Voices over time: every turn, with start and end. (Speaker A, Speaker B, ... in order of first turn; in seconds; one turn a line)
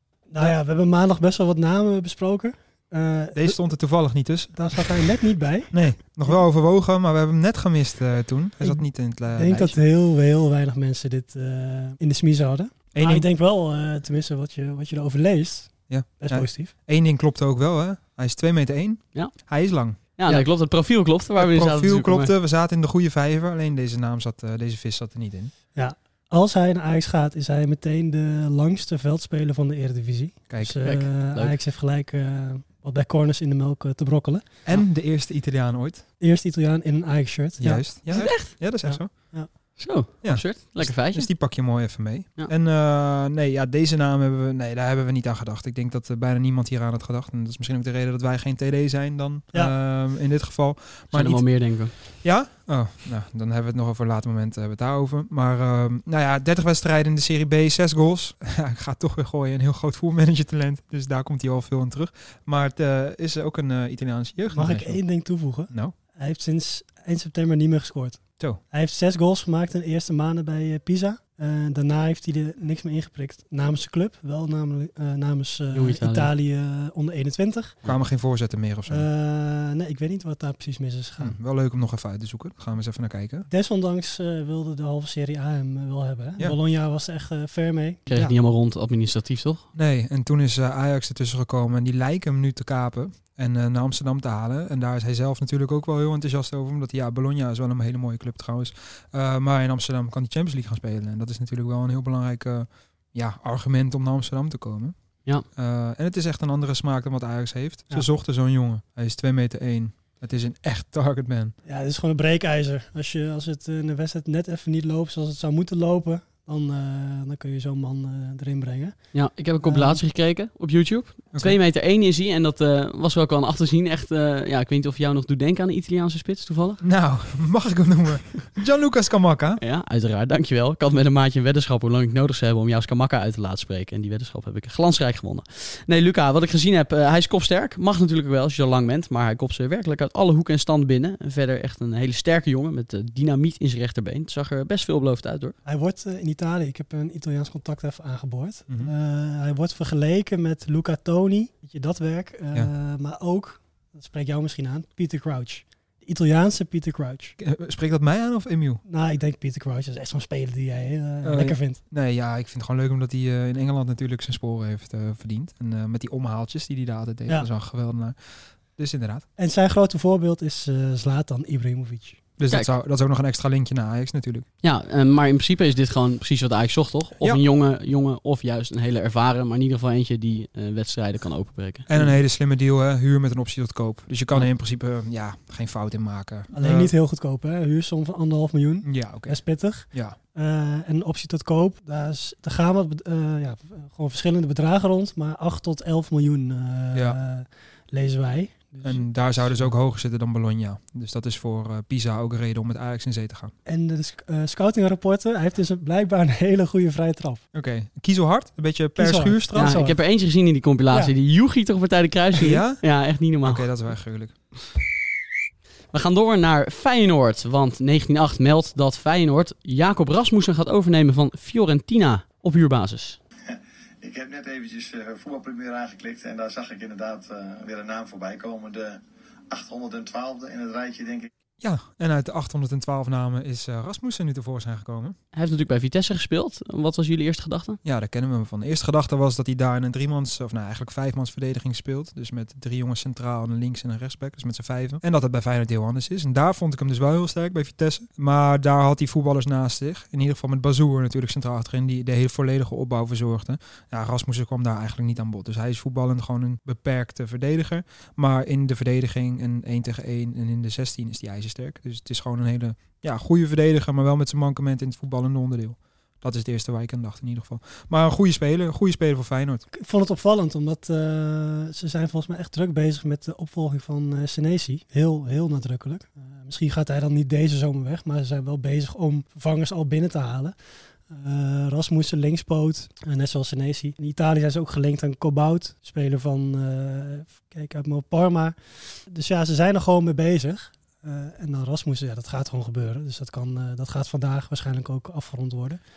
Speaker A: 0.3-6.4
Speaker B: 3.3-5.0
Speaker B: 5.7-9.8
Speaker A: 8.6-16.7
Speaker B: 12.9-13.3
Speaker B: 15.9-20.0
Speaker C: 20.1-22.3
Speaker B: 21.4-25.5
Speaker A: 25.8-34.5
Speaker B: 30.5-30.9
Speaker C: 30.8-31.6
Speaker B: 34.6-36.0
Speaker A: 36.2-39.5
Speaker B: 37.6-39.3
Speaker C: 38.1-38.5
Speaker C: 39.8-41.3
Speaker B: 40.2-51.4
Speaker C: 51.1-51.9
Speaker B: 52.2-65.1
Speaker A: 64.5-77.8
Speaker B: 65.7-66.0
Speaker C: 75.7-76.3
Speaker B: 77.8-79.1
Speaker A: 78.9-81.4
Speaker B: 81.2-83.5
Speaker A: 83.5-88.3
Speaker C: 88.1-89.7
Speaker B: 89.8-105.0
Speaker B: 105.5-111.5
Speaker A: 111.7-119.0
Speaker C: 119.1-126.8
Speaker A: 119.6-120.0
Speaker B: 126.8-129.6
Speaker C: 129.6-145.6
Speaker A: 145.7-157.3
Speaker B: 157.4-158.8
Speaker A: 158.8-161.8
Speaker B: 161.2-168.2
Speaker B: 168.8-169.2
Speaker A: 169.4-172.2
Speaker B: 172.4-174.5
Speaker C: 174.6-182.1
Speaker B: 181.9-186.9
Speaker A: 186.5-199.7
Speaker B: 188.8-189.4
Speaker B: 189.9-190.2
Speaker B: 198.8-203.5
Speaker A: 203.7-207.4
Speaker B: 207.5-209.8
Speaker A: 209.0-210.0
Speaker C: 209.6-213.8
Speaker B: 212.4-214.3
Speaker C: 215.9-223.2
Speaker D: 224.0-231.3
Speaker B: 231.6-235.2
Speaker C: 235.3-237.8
Speaker B: 237.8-269.6
Speaker A: 269.7-280.6
Speaker A: 281.1-295.8